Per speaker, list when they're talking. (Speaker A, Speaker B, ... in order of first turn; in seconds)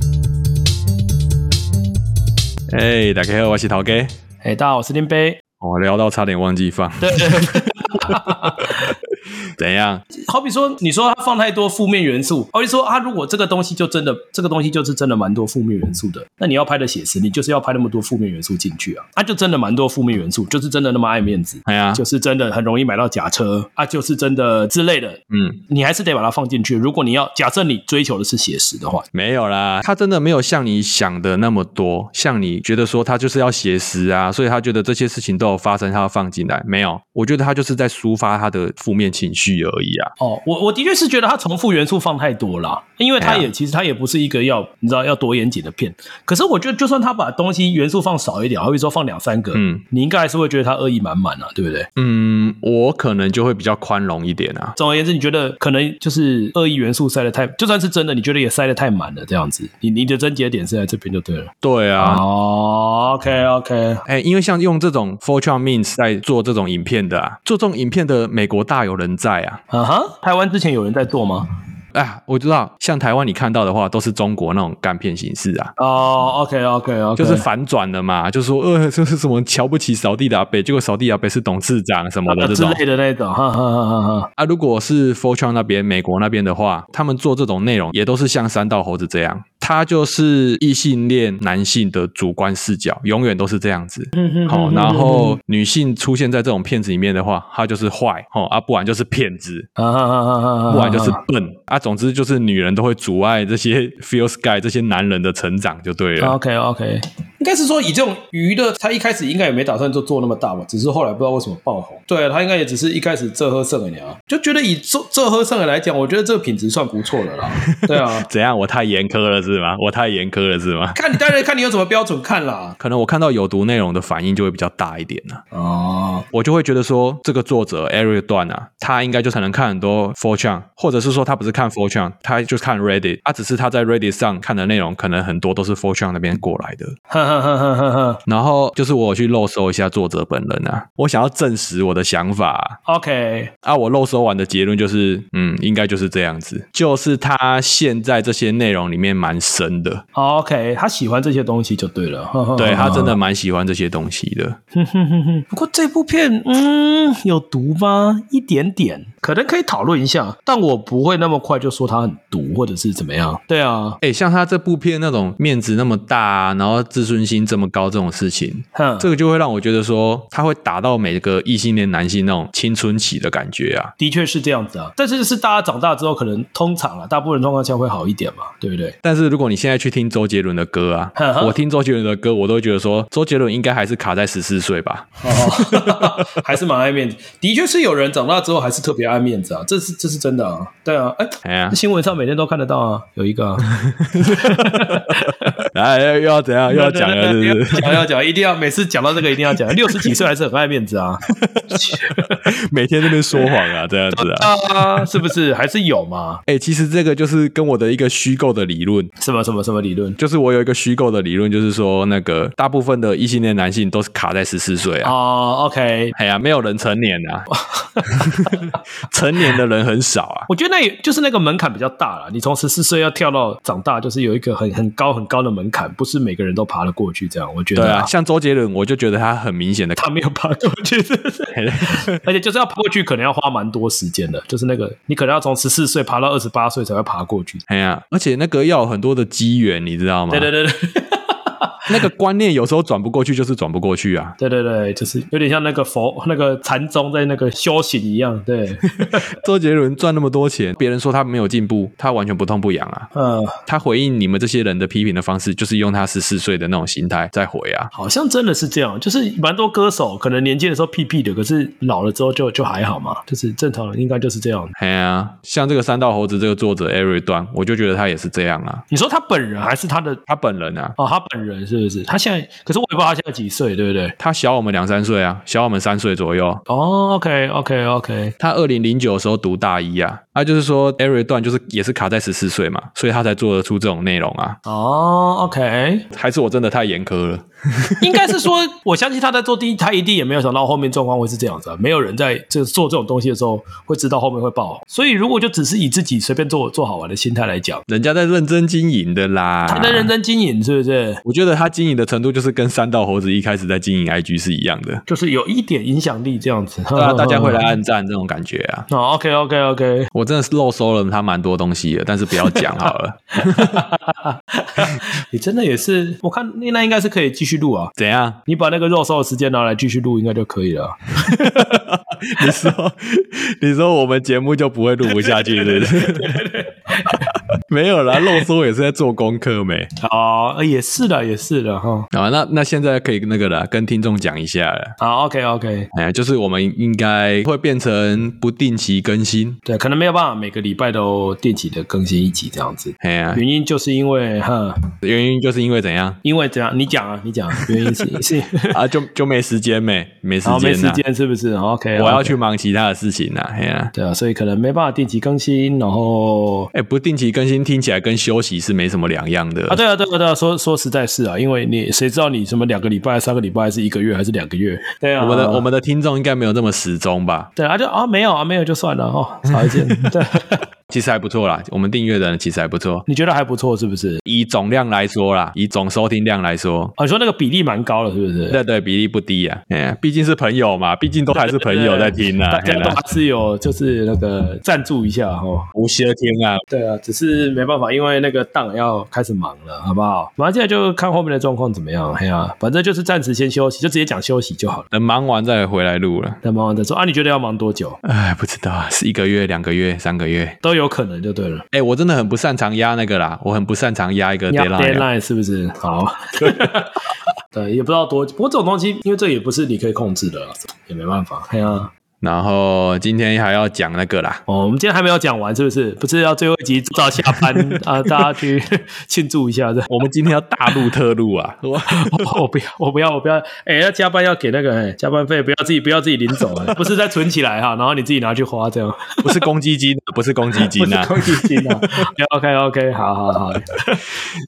Speaker A: 2.7-4.1, 5.6-8.9, 9.6-10.0, 21.6-22.0, 25.3-25.6, 29.1-40.1, 43.2-43.5, 49.5-49.8, 52.0-54.8, 61.6-62.2, 64.1-69.6, 71.9-75.7, 77.2-82.8, 84.4-99.7, 100.7-106.4, 117.6-121.3, 122.8-125.4, 126.3-136.9, 138.3-142.8, 143.6-150.0, 152.6-154.6, 164.0-173.9, 179.0-186.4, 191.4-191.8, 193.7-198.1, 201.4-205.2, 206.5-209.1, 210.2-215.1, 216.1-217.5, 218.0-220.5, 227.8-230.0, 231.5-232.2, 237.7-240.5, 241.9-244.3, 249.0-253.1, 253.7-257.9, 264.8-268.8, 270.3-271.0, 274.2-276.6, 278.4-284.6, 286.1-288.4, 297.9-300.1, 301.2-305.0, 306.9-308.9, 310.1-313.9, 318.0-318.4, 321.2-326.5, 327.1-329.9, 332.1-334.9, 335.9-339.6, 343.0-343.4, 345.0-346.2, 347.6-348.0, 348.7-351.0, 352.0-353.9, 356.7-359.8, 365.2-367.5, 369.5-370.1, 370.9-373.1, 374.2-376.9, 378.5-383.0, 385.7-386.6, 394.9-396.4, 398.0-400.6, 401.7-405.1, 412.2-414.4, 417.2-417.8, 419.9-422.4, 429.2-432.1
Speaker B: 4.4-5.4, 7.0-8.9, 10.1-29.1, 40.2-51.9, 54.8-64.0, 69.7-71.5, 75.8-77.5, 82.3-84.3, 94.2-95.4, 99.8-101.2, 106.2-118.3, 121.0-122.8, 125.5-126.3, 137.1-138.2, 142.9-143.5, 150.2-153.2, 154.7-164.0, 168.8-169.1, 174.0-178.9, 181.2-181.6, 185.2-195.6, 196.7-202.4, 204.2-206.4, 209.2-210.2, 215.0-216.1, 217.5-218.6, 220.5-228.1, 230.0-237.6, 240.3-241.8, 244.4-249.2, 253.1-253.6, 257.9-264.7, 268.9-270.2, 271.0-274.1, 276.7-278.3, 284.6-286.1, 288.0-297.9, 299.7-301.2, 305.1-307.6, 308.9-310.1, 312.4-317.9, 318.5-321.8, 322.4-322.7, 325.1-327.3, 328.2-328.4, 330.0-332.1, 335.0-335.9, 339.7-344.8, 346.2-348.8, 350.4-352.4, 353.9-356.7, 359.7-365.6, 367.6-370.6, 373.1-374.2, 377.0-378.6, 381.3-385.7, 386.7-394.9, 396.4-398.0, 400.6-401.6, 404.5-411.9, 414.5-420.0, 421.9-429.4, 430.6-434.0